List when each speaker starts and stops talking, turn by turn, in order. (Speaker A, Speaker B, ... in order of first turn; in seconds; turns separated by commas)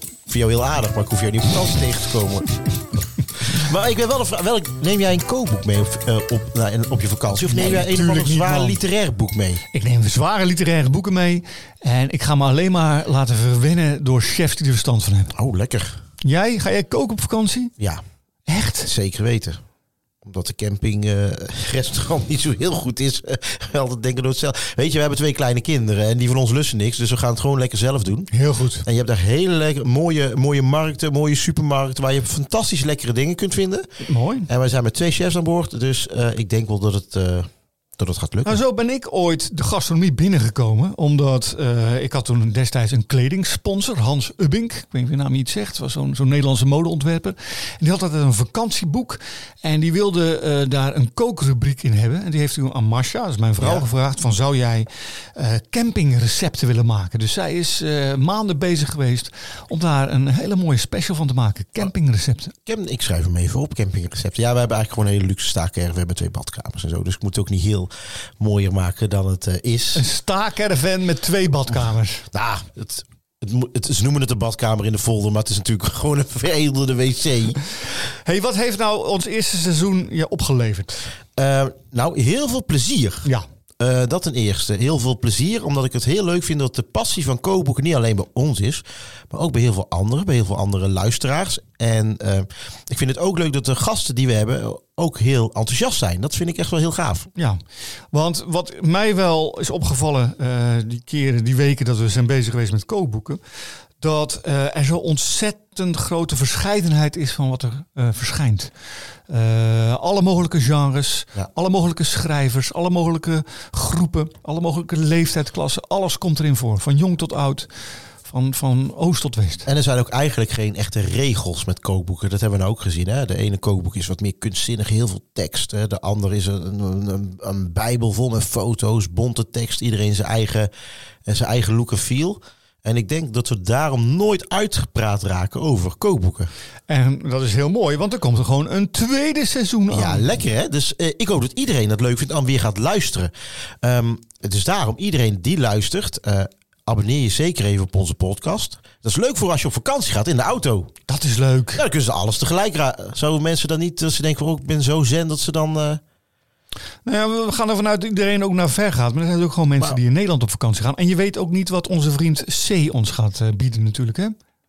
Speaker A: 0.3-2.6, Speaker A: 3.4-9.6, Speaker B: 7.5-8.8, Speaker B: 9.7-15.3, Speaker A: 15.3-16.0, Speaker B: 16.2-17.7, Speaker B: 18.5-18.9, Speaker A: 18.9-19.6, Speaker A: 20.2-28.3, Speaker B: 28.3-28.9, Speaker A: 28.9-33.9, Speaker B: 34.0-34.5, Speaker A: 34.5-38.6, Speaker B: 38.5-62.5, Speaker A: 53.6-53.9, Speaker A: 62.7-70.0, Speaker B: 70.0-72.3, Speaker A: 72.3-77.6, Speaker B: 78.0-81.0, Speaker A: 81.4-83.3, Speaker A: 83.8-97.3, Speaker B: 98.1-103.4, Speaker B: 104.0-108.7, Speaker B: 109.3-117.7, Speaker B: 118.2-119.7, Speaker A: 119.7-130.7, Speaker A: 131.3-136.5, Speaker B: 136.9-140.3, Speaker A: 139.9-143.3, Speaker A: 143.8-150.9, Speaker B: 151.1-151.8, Speaker A: 151.8-156.0, Speaker B: 157.1-164.3